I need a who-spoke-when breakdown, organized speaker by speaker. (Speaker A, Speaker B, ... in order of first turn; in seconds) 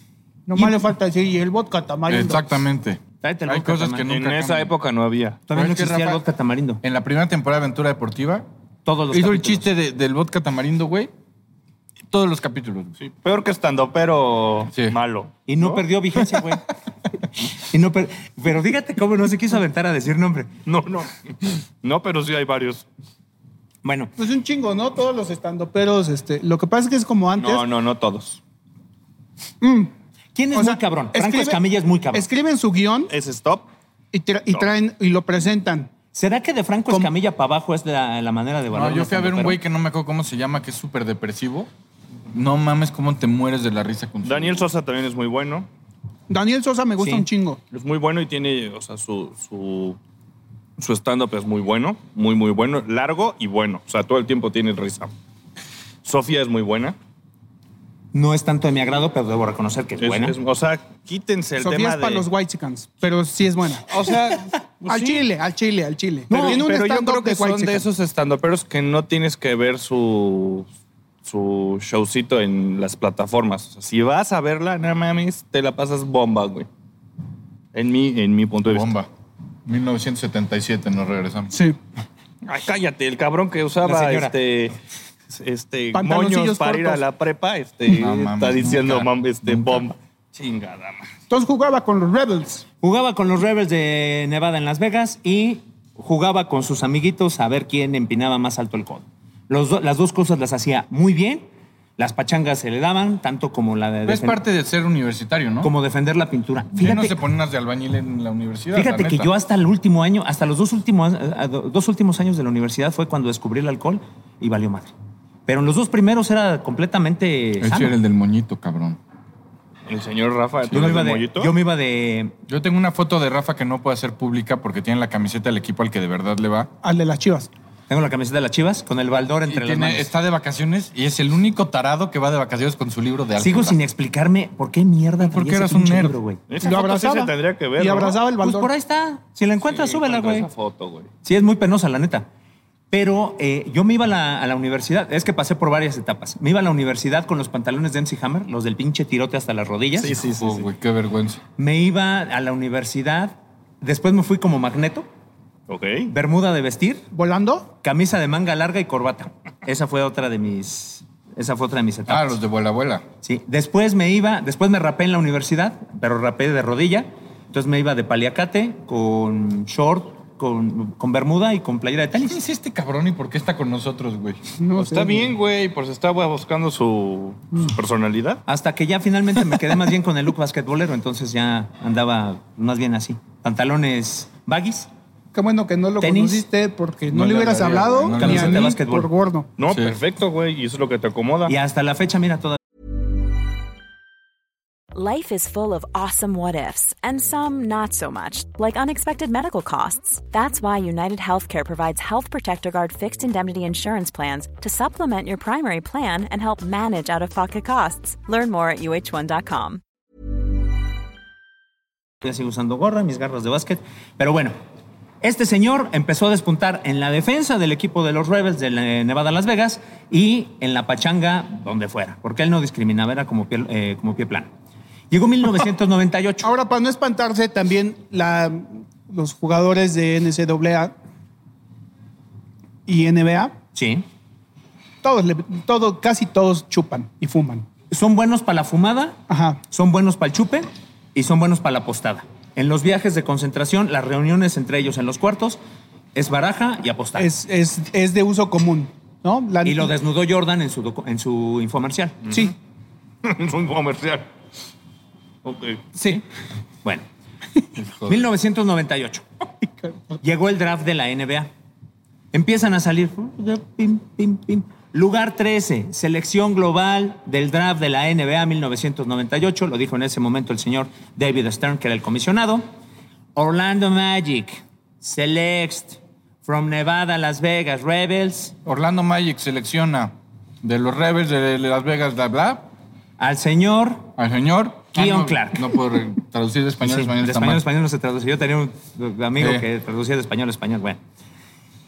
Speaker A: 0.5-2.6, 24.2-27.7, 29.6-29.9, 30.5-31.6, 32.1-33.1, 34.1-35.9, 46.3-47.6, 61.6-64.0, 64.9-67.9, 81.5-81.8, 85.9-87.0, 91.3-92.7, 126.8-127.5, 136.6-138.7, 157.1-157.7, 174.6-175.3, 185.3-189.5, 226.4-230.9, 232.9-233.6, 235.0-237.7, 239.3-239.6, 247.2-249.9, 256.0-256.2
Speaker B: 2.1-4.8, 5.5-6.2, 6.8-8.5, 9.1-11.1, 12.1-13.0, 14.7-15.0, 38.7-41.7, 42.3-44.7, 78.7-79.1, 79.7-81.5, 87.9-89.9, 104.0-105.7, 106.8-109.3, 117.6-119.0, 122.5-126.7, 129.5-133.8, 135.2-136.2, 150.2-151.4, 162.1-163.1, 172.2-174.4, 187.1-188.8, 189.7-190.0, 257.8-258.2, 278.6-282.7, 284.2-287.6, 289.4-289.7
Speaker C: 3.2-4.1, 5.5-6.8, 8.8-9.7, 15.5-16.7, 17.5-20.5, 23.8-24.1, 30.4-32.3, 36.1-39.6, 47.0-47.3, 58.1-60.4, 83.8-84.3, 92.8-104.4, 105.6-107.2, 108.7-114.9, 115.5-118.0, 120.7-122.3, 127.9-130.1, 133.4-136.4, 138.4-140.5, 141.2-142.3, 142.9-150.2, 151.6-155.1, 156.1-157.1, 157.8-162.4, 163.2-172.4, 178.5-184.9, 186.0-186.5, 188.2-189.1, 191.5-192.6, 212.2-214.6, 215.2-224.5, 225.1-226.5, 233.7-234.1, 237.9-245.6, 246.2-247.3, 249.6-252.2, 258.1-259.2, 260.2-261.5, 262.3-272.7, 273.4-278.6, 283.2-284.1, 284.9-285.7, 286.8-291.0
Speaker D: 4.1-5.4, 13.0-15.8, 20.7-22.9, 27.4-28.4, 33.1-33.7, 44.2-45.7, 47.7-50.0, 50.8-55.1, 56.0-57.0, 60.0-62.3, 63.9-65.3, 66.3-70.7, 71.2-76.7, 77.7-78.9, 82.5-84.8, 85.3-91.1, 119.9-121.5, 136.5-138.2, 139.6-141.1, 150.0-150.7, 155.7-156.1, 174.8-178.4, 189.6-191.6, 252.3-252.5, 253.2-254.3, 255.4-255.8
Speaker E: 194.9-209.8